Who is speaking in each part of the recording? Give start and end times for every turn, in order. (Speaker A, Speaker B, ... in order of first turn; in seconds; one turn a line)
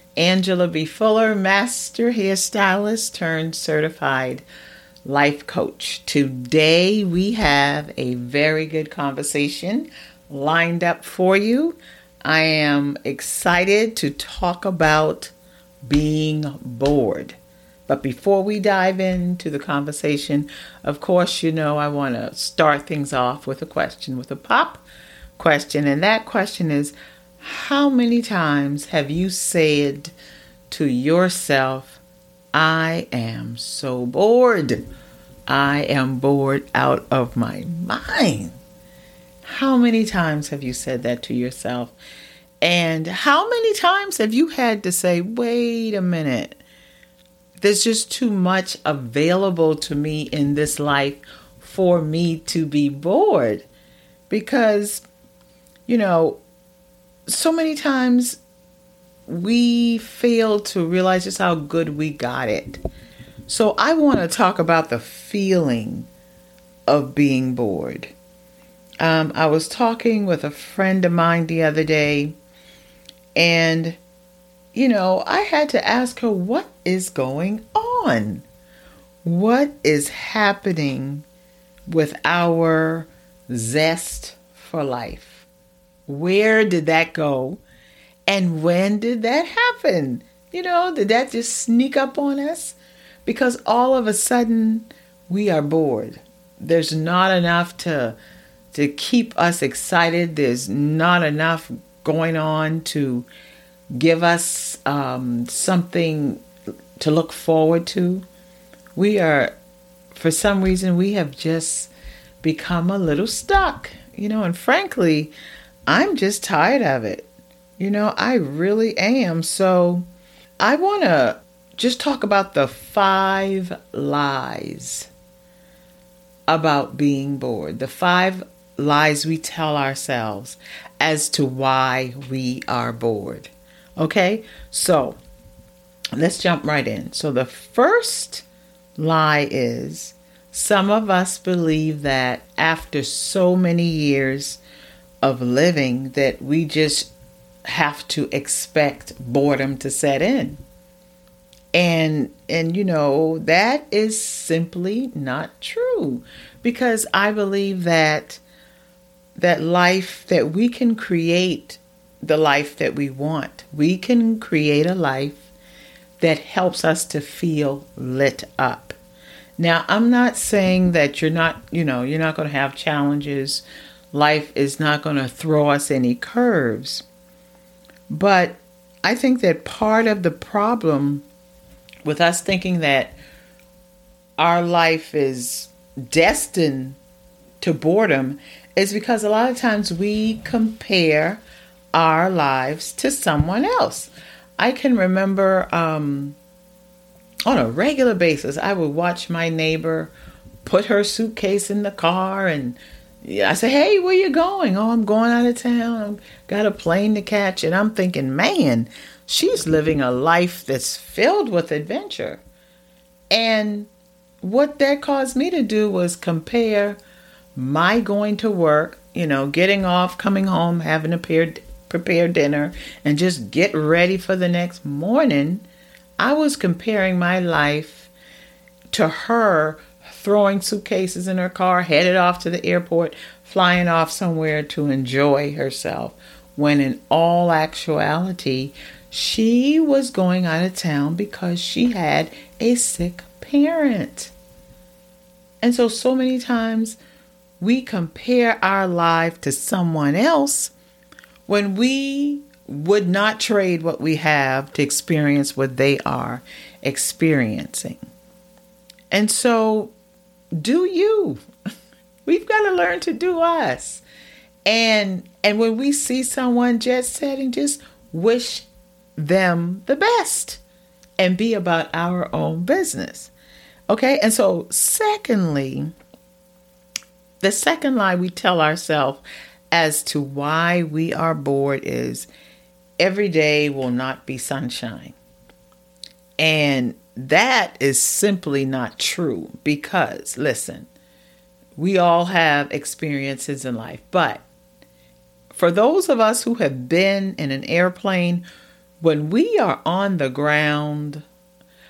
Speaker A: 0.2-4.5
Speaker A: 5.0-15.3
Speaker A: 15.9-17.4
Speaker A: 17.9-24.8
Speaker A: 25.4-30.1
Speaker A: 30.7-32.0
Speaker A: 32.5-34.8
Speaker A: 35.5-38.6
Speaker A: 39.4-42.0
Speaker A: 42.6-46.6
Speaker A: 47.6-53.7
Speaker A: 54.3-55.0
Speaker A: 55.9-56.4
Speaker A: 57.3-58.4
Speaker A: 59.3-62.8
Speaker A: 63.5-66.1
Speaker A: 66.9-68.1
Speaker A: 69.0-72.3
Speaker A: 73.4-74.0
Speaker A: 74.7-78.5
Speaker A: 79.2-81.2
Speaker A: 81.9-85.5
Speaker A: 86.1-87.6
Speaker A: 88.3-98.2
Speaker A: 98.7-103.3
Speaker A: 104.0-106.4
Speaker A: 107.0-108.2
Speaker A: 109.0-109.5
Speaker A: 110.1-111.9
Speaker A: 112.4-115.3
Speaker A: 115.9-120.0
Speaker A: 120.6-125.1
Speaker A: 126.5-135.2
Speaker A: 136.2-138.4
Speaker A: 139.0-144.6
Speaker A: 145.2-147.1
Speaker A: 147.7-150.6
Speaker A: 151.7-158.4
Speaker A: 159.4-165.5
Speaker A: 166.2-169.0
Speaker A: 169.6-177.1
Speaker A: 178.1-181.3
Speaker A: 182.1-183.2
Speaker A: 184.4-187.0
Speaker A: 187.6-191.4
Speaker A: 191.9-196.4
Speaker A: 197.5-200.1
Speaker A: 200.6-212.4
Speaker A: 213.3-213.9
Speaker A: 214.4-217.0
Speaker A: 217.6-225.7
Speaker A: 226.2-228.1
Speaker A: 228.9-244.3
Speaker A: 245.6-247.0
Speaker A: 247.6-250.7
Speaker A: 251.5-258.0
Speaker A: 259.1-259.9
Speaker A: 260.6-261.4
Speaker A: 262.3-264.0
Speaker A: 264.7-268.7
Speaker A: 269.2-270.6
Speaker A: 271.2-273.3
Speaker A: 273.9-275.9
Speaker A: 277.4-282.3
Speaker A: 283.0-285.2
Speaker A: 286.4-290.9
Speaker A: 291.8-294.4
Speaker A: 295.5-298.4
Speaker A: 299.0-301.2